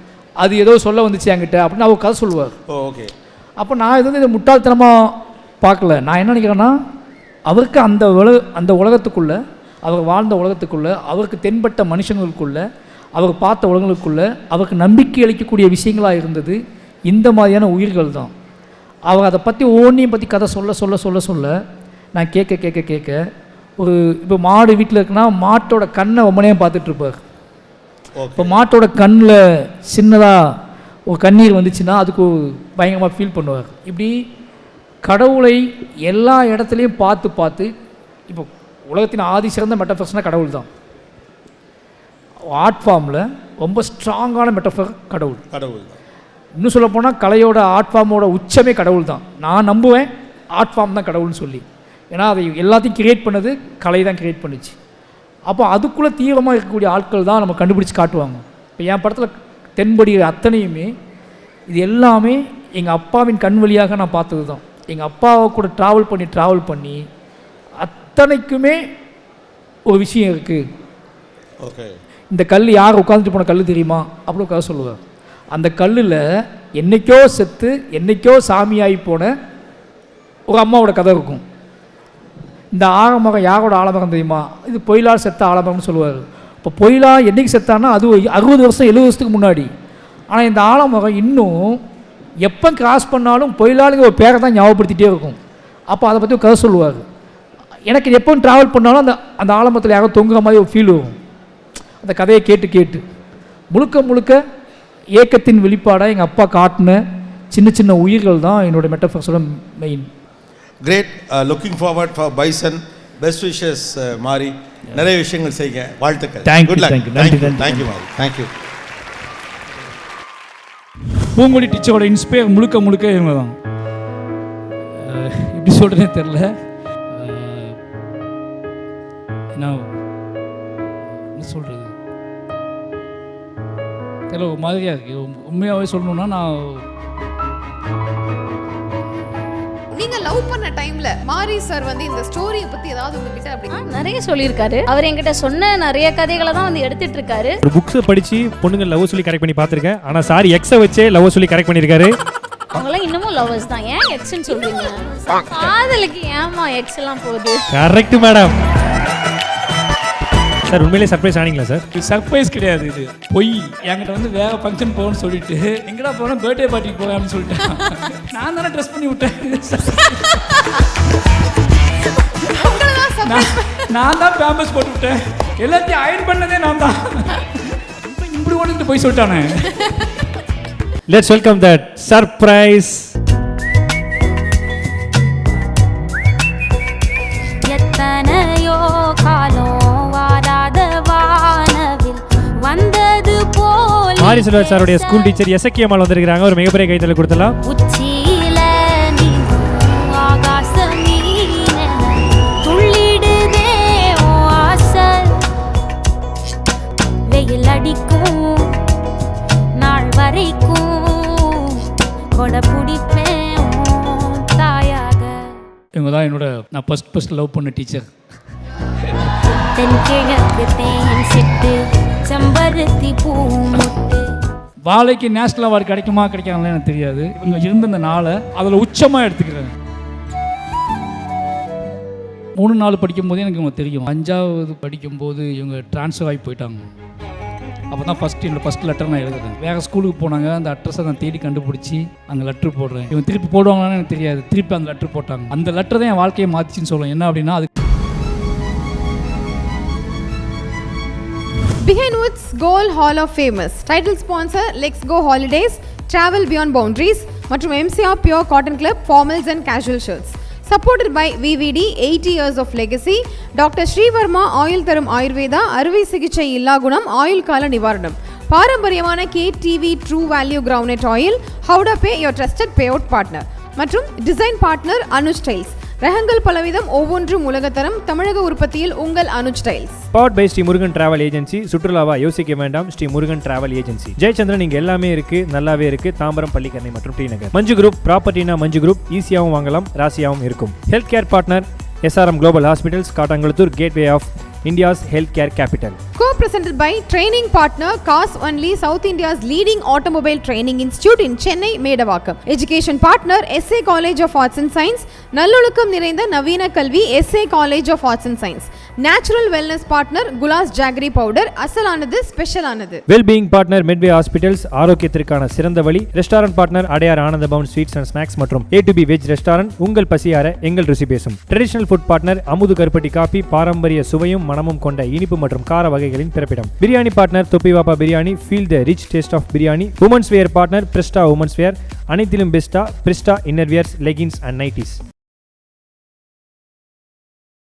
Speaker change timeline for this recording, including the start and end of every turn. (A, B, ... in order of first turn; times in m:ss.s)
0:00.4-0:02.6 A
0:02.7-0:03.1 B
0:03.6-0:05.1 A
0:05.6-0:06.8 A
0:07.5-0:12.6 A
0:13.2-0:18.3 A
0:19.1-0:21.6 A
0:22.2-0:23.2 A
0:23.8-0:27.2 A
0:28.2-0:28.6 B
0:28.4-0:30.4 A
0:31.1-0:34.1 A
0:35.1-0:37.7 A
0:38.3-0:40.7 A
0:42.5-0:45.4 A
0:45.5-0:46.0 B
0:46.6-0:54.8 A
0:55.5-1:00.9 A
1:01.7-1:07.0 A
1:07.8-1:08.8 A
1:09.9-1:10.6 A
1:11.6-1:12.0 B
1:12.3-1:15.0 A
1:15.5-1:16.2 A
1:16.8-1:19.3 A
1:20.5-1:21.4 A
1:22.7-1:29.7 A
1:30.3-1:31.8 A
1:32.5-1:35.4 A
1:35.9-1:37.1 A
1:37.9-1:41.2 A
1:42.0-1:43.0 A
1:43.7-1:44.4 A
1:45.2-1:47.0 A
1:47.5-1:50.1 A
1:50.8-1:58.5 B
1:56.4-1:57.9 A
2:01.3-2:03.6 A
2:04.9-2:06.5 A
2:07.1-2:07.8 A
2:09.5-2:09.9 A
2:11.4-2:11.9 A
2:14.3-2:16.8 A
2:19.9-2:24.0 C
2:23.7-2:27.6 D
2:27.6-2:32.1 E
2:32.7-2:37.6 D
2:37.7-2:38.6 E
2:40.7-2:41.8 E
2:41.9-2:50.3 A
2:52.5-2:53.9 C
2:53.2-2:59.8 A
3:01.1-3:03.1 E
3:07.6-3:15.4 F
3:14.2-3:17.6 E
3:17.6-3:25.4 F
3:27.3-3:28.7 F
3:29.8-3:35.5 F
3:35.9-3:38.1 A
3:39.8-3:44.3 F
3:44.9-3:49.7 A
3:52.6-3:56.9 A
3:57.9-4:07.7 A
4:11.8-4:40.0 C
4:40.1-4:56.0 E
4:56.2-5:13.0 C
5:13.1-5:35.0 E